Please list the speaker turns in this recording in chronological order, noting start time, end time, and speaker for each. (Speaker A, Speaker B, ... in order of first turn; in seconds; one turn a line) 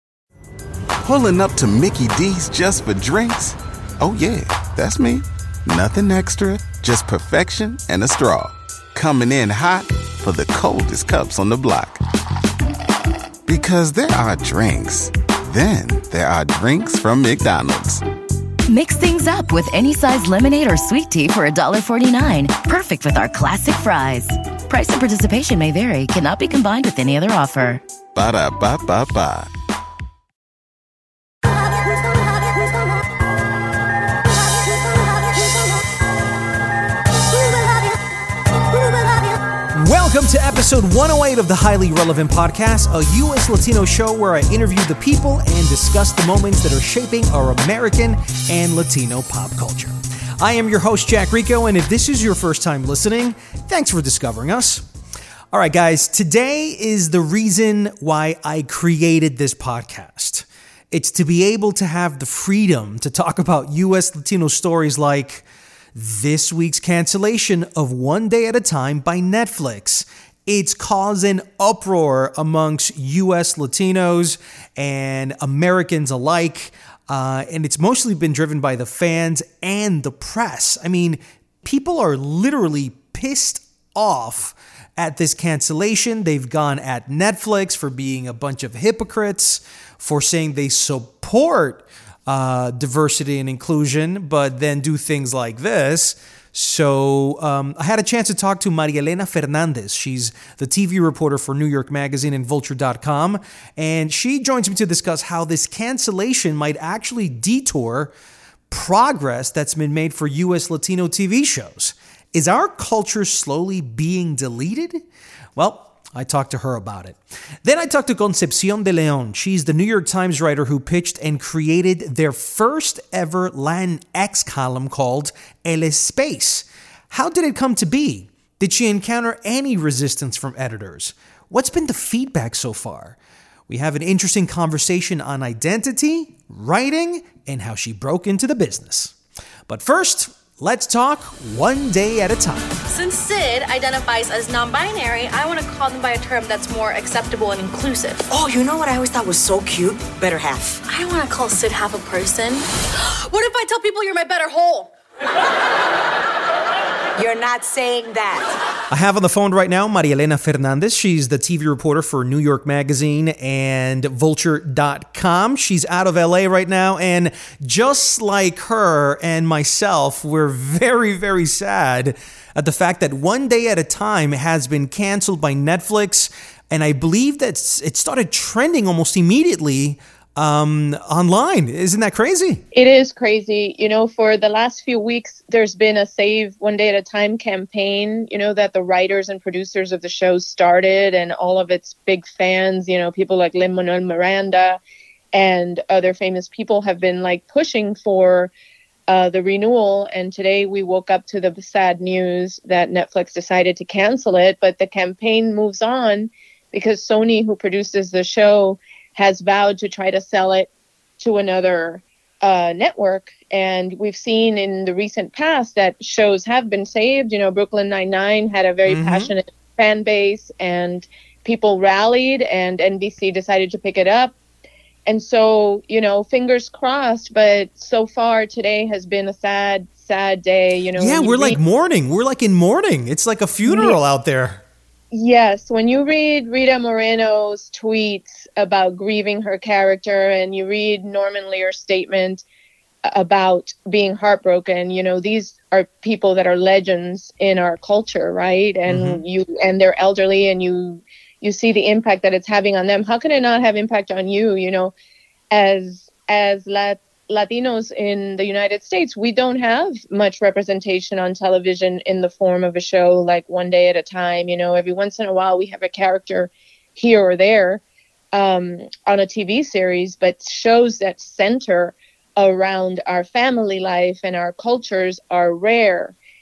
Speaker A: 1.0-12.0
Speaker A: 13.5-18.0
Speaker B: 18.7-27.8
Speaker A: 28.1-29.5
Speaker C: 39.7-54.9
Speaker C: 55.5-108.1
Speaker C: 108.7-115.0
Speaker C: 115.6-133.2
Speaker C: 133.7-139.2
Speaker C: 139.7-142.8
Speaker D: 142.9-148.4
Speaker E: 148.3-150.7
Speaker D: 150.7-154.9
Speaker D: 157.2-157.8
Speaker E: 157.2-158.4
Speaker C: 158.9-182.6
Speaker F: 182.7-194.8
Speaker F: 195.3-198.5
Speaker F: 199.1-224.3
Speaker C: 218.9-219.3
Speaker F: 225.1-231.6
Speaker C: 230.9-234.6
Speaker F: 233.7-234.0
Speaker F: 235.1-242.4
Speaker F: 243.1-254.9
Speaker C: 248.9-249.2
Speaker F: 255.5-267.8
Speaker F: 268.3-276.1